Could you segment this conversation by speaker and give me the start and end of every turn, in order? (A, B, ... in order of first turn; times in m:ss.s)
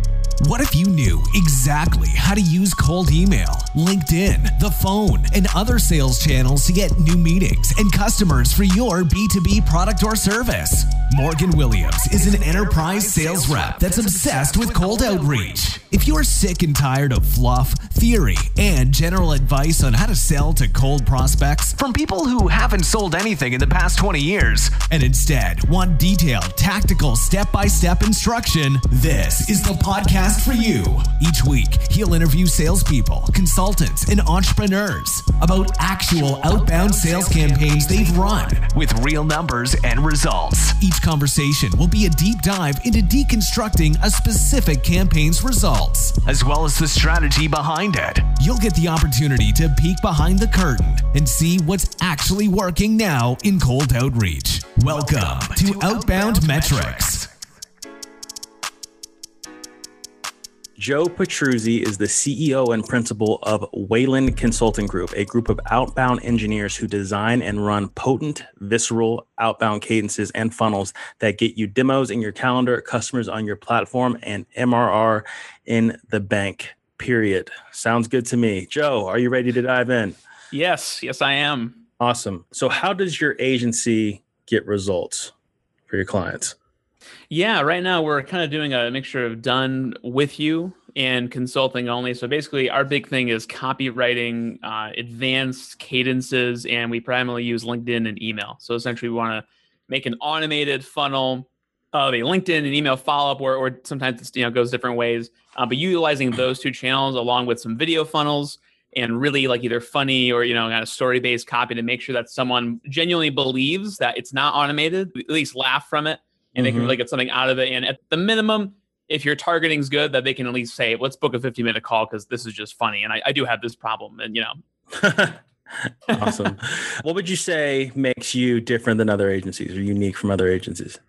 0:00.4-0:57.3 A
1:00.8-1:20.2 B
1:20.5-1:21.8 C
1:22.0-1:25.3 B
1:25.9-1:26.6 B
1:27.3-2:04.6 C
1:56.6-1:57.0 B
2:04.9-2:11.0 B
2:06.1-2:06.5 C